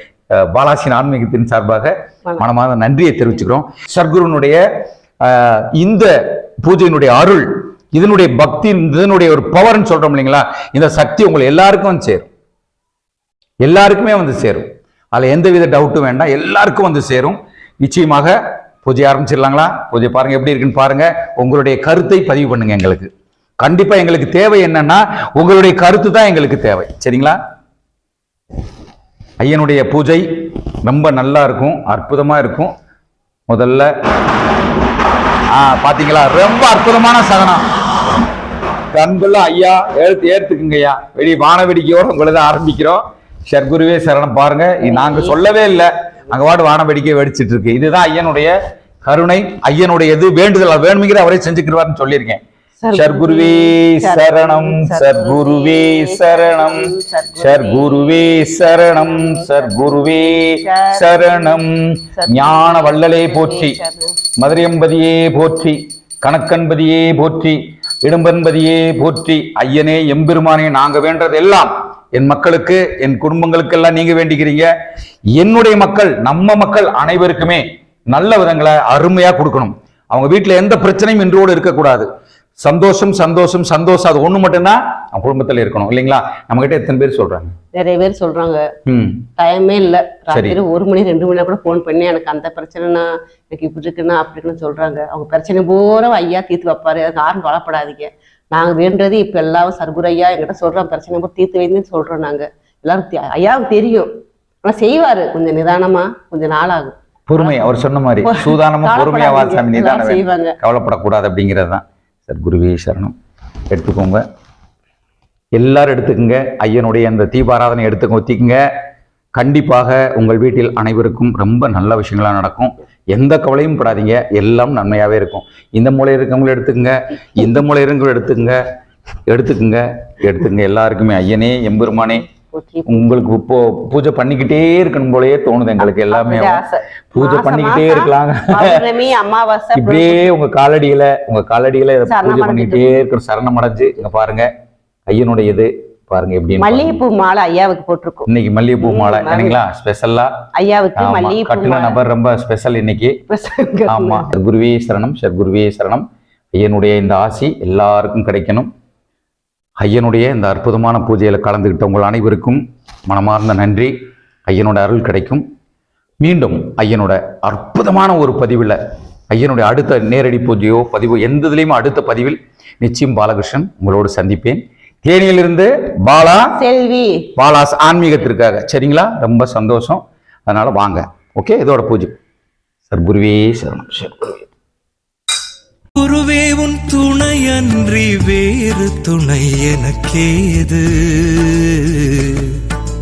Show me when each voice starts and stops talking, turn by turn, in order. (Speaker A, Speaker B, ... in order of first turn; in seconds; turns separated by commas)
Speaker A: 0.4-4.6, Speaker A: 5.2-6.1, Speaker A: 6.6-12.3, Speaker A: 13.6-23.1, Speaker A: 23.6-27.4, Speaker A: 29.4-32.7, Speaker A: 33.5-33.9, Speaker A: 35.5-37.6, Speaker A: 38.9-48.5, Speaker B: 44.8-45.5, Speaker A: 49.0-52.4, Speaker B: 52.8-61.6, Speaker A: 52.9-63.8, Speaker B: 62.2-64.2, Speaker A: 64.4-74.7, Speaker A: 75.3-82.1, Speaker A: 82.6-87.5, Speaker B: 87.7-88.6, Speaker A: 88.9-89.3, Speaker B: 89.4-104.1, Speaker A: 90.3-90.6, Speaker B: 104.6-107.6, Speaker A: 107.3-113.2, Speaker B: 108.2-110.5, Speaker A: 113.7-114.2, Speaker A: 115.6-118.6, Speaker A: 119.4-128.6, Speaker A: 129.3-132.2, Speaker B: 132.1-133.2, Speaker A: 132.9-136.6, Speaker B: 135.9-140.3, Speaker A: 137.1-138.8, Speaker A: 139.8-144.5, Speaker B: 142.1-142.9, Speaker A: 145.1-147.0, Speaker B: 146.6-149.6, Speaker A: 148.3-150.3, Speaker B: 150.6-152.0, Speaker A: 151.0-153.2, Speaker B: 153.3-154.3, Speaker A: 153.9-158.7, Speaker A: 159.8-163.9, Speaker A: 164.5-165.4, Speaker A: 166.2-168.8, Speaker A: 169.3-176.6, Speaker B: 176.6-177.3, Speaker A: 177.4-182.2, Speaker A: 182.9-184.4, Speaker C: 186.0-192.6